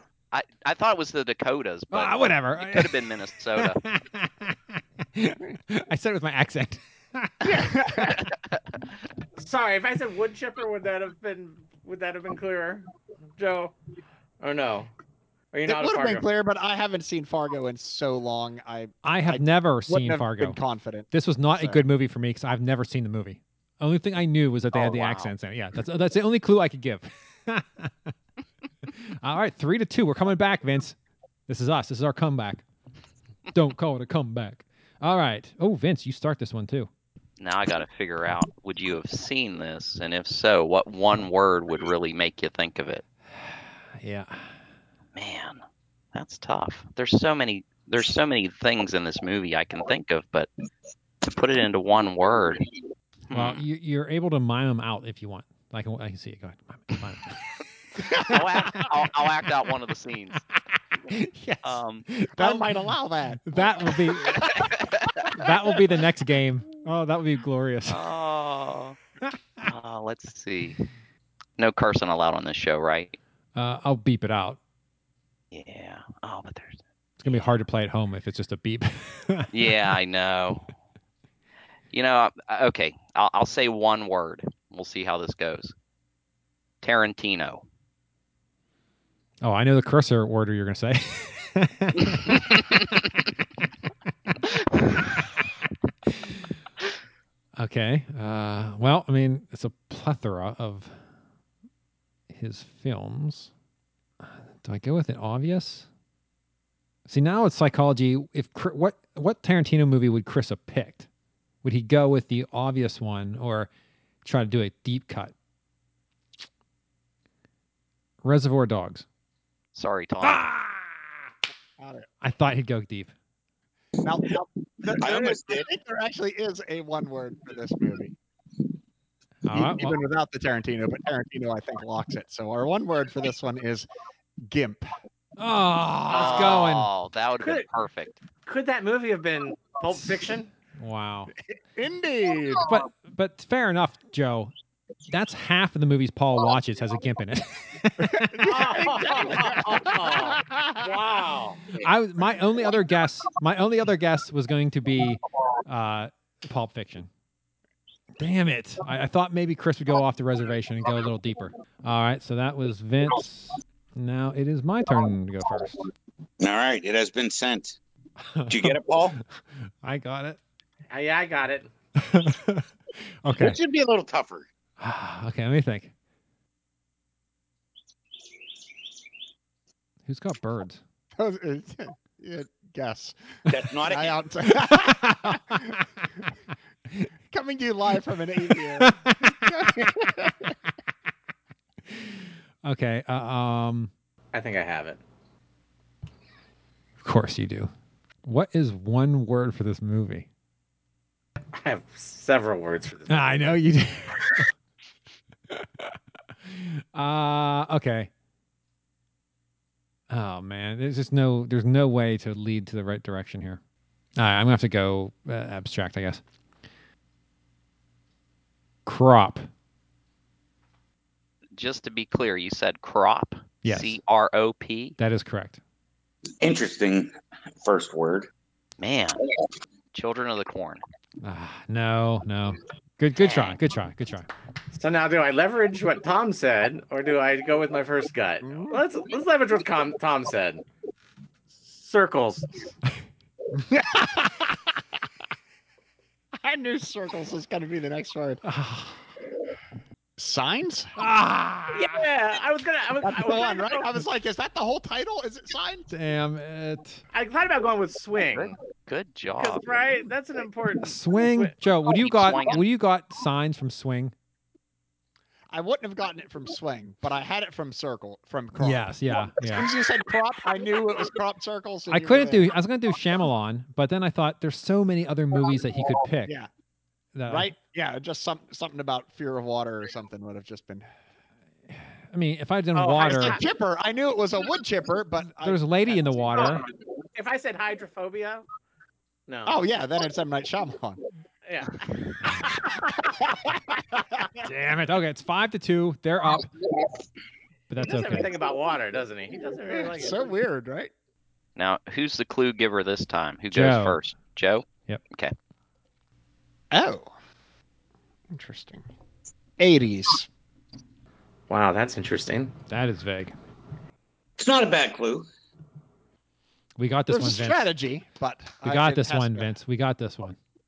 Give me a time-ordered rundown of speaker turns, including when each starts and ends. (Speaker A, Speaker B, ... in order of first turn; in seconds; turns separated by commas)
Speaker A: 0.3-3.8, Speaker B: 1.9-7.7, Speaker C: 7.4-8.2, Speaker D: 9.4-13.7, Speaker D: 14.4-14.9, Speaker D: 15.5-16.2, Speaker C: 15.7-21.8, Speaker B: 19.0-20.6, Speaker B: 21.1-28.1, Speaker A: 24.7-25.3, Speaker B: 28.9-31.0, Speaker B: 31.5-32.6, Speaker B: 33.5-36.9, Speaker A: 37.4-43.0, Speaker B: 43.3-44.5, Speaker A: 45.1-45.6, Speaker A: 46.1-50.5, Speaker A: 51.2-52.6, Speaker A: 53.3-53.6, Speaker B: 53.3-58.8, Speaker A: 58.2-60.4, Speaker B: 61.1-62.9, Speaker A: 61.6-62.0, Speaker C: 62.3-64.6, Speaker B: 63.4-64.7, Speaker B: 65.3-68.1, Speaker A: 67.9-69.0, Speaker A: 69.7-70.8, Speaker A: 71.6-73.2, Speaker B: 73.5-74.6, Speaker A: 75.5-77.5, Speaker B: 77.2-79.8, Speaker A: 79.5-80.7, Speaker A: 81.9-85.7, Speaker A: 86.8-87.6, Speaker B: 89.4-92.8, Speaker B: 97.6-101.0, Speaker B: 102.3-103.5, Speaker B: 104.2-105.9, Speaker B: 107.1-111.1, Speaker B: 111.6-113.7, Speaker B: 114.2-115.3, Speaker B: 118.2-119.0, Speaker A: 119.7-120.4, Speaker B: 120.2-121.1, Speaker C: 121.8-122.1, Speaker B: 122.2-123.1, Speaker C: 124.0-128.2, Speaker E: 125.0-125.7, Speaker B: 129.4-130.0, Speaker C: 129.5-133.9, Speaker C: 134.4-134.9, Speaker B: 135.4-136.9, Speaker D: 136.1-136.7, Speaker A: 136.1-138.2, Speaker D: 137.4-137.7, Speaker D: 138.4-140.5, Speaker B: 140.8-141.3, Speaker C: 141.5-142.7, Speaker B: 142.7-144.5, Speaker B: 145.1-148.4, Speaker C: 148.0-150.9, Speaker D: 148.4-151.6, Speaker B: 151.8-157.1, Speaker B: 158.2-165.8, Speaker E: 166.4-167.8, Speaker B: 168.2-168.8, Speaker E: 168.5-169.2, Speaker B: 169.8-170.4, Speaker D: 170.9-171.7, Speaker B: 172.0-172.7, Speaker B: 173.2-173.6, Speaker E: 173.3-174.5, Speaker B: 174.8-175.9, Speaker B: 180.1-180.8, Speaker C: 181.2-185.8, Speaker E: 183.5-184.2, Speaker B: 184.7-185.4, Speaker C: 187.3-190.5, Speaker B: 188.8-189.3, Speaker B: 191.9-193.9, Speaker D: 194.3-195.0, Speaker B: 197.0-197.7, Speaker B: 198.2-200.3, Speaker D: 201.5-203.5, Speaker B: 203.1-204.4, Speaker B: 205.5-208.1, Speaker B: 210.1-213.6, Speaker B: 214.2-216.2, Speaker B: 218.8-219.5, Speaker A: 221.6-224.9, Speaker B: 223.6-224.0, Speaker B: 225.0-225.6, Speaker E: 226.4-228.3, Speaker A: 228.8-229.2, Speaker A: 229.9-230.8, Speaker B: 231.2-234.3, Speaker A: 233.2-233.6, Speaker D: 234.7-240.6, Speaker C: 238.4-238.8, Speaker D: 241.7-242.5, Speaker C: 243.5-244.8, Speaker C: 246.4-248.4, Speaker B: 248.4-249.0, Speaker C: 250.2-250.9, Speaker B: 251.0-252.0, Speaker D: 251.7-253.8, Speaker C: 253.0-255.9, Speaker B: 255.9-257.0, Speaker D: 257.1-258.5, Speaker A: 258.3-259.6, Speaker D: 259.4-261.5, Speaker B: 260.8-264.1, Speaker A: 262.0-262.6, Speaker C: 265.5-272.5, Speaker B: 268.6-269.7, Speaker B: 271.9-276.3, Speaker B: 277.1-277.5, Speaker C: 277.3-280.9, Speaker B: 281.7-283.4, Speaker D: 282.7-283.4, Speaker C: 283.1-286.5, Speaker B: 285.4-286.6, Speaker D: 286.3-286.6, Speaker D: 287.1-288.4, Speaker D: 289.3-289.6, Speaker C: 289.4-291.0, Speaker D: 291.4-291.8, Speaker C: 292.5-294.2, Speaker B: 294.4-296.5, Speaker B: 297.7-298.3, Speaker D: 297.8-300.3, Speaker C: 299.7-300.9, Speaker A: 301.6-305.3, Speaker B: 303.5-304.0, Speaker C: 306.7-307.1, Speaker C: 308.3-308.9, Speaker C: 309.6-310.3, Speaker D: 311.5-312.5, Speaker B: 312.7-313.3, Speaker E: 314.4-315.3, Speaker B: 316.8-317.7, Speaker C: 317.1-319.5, Speaker B: 318.6-320.4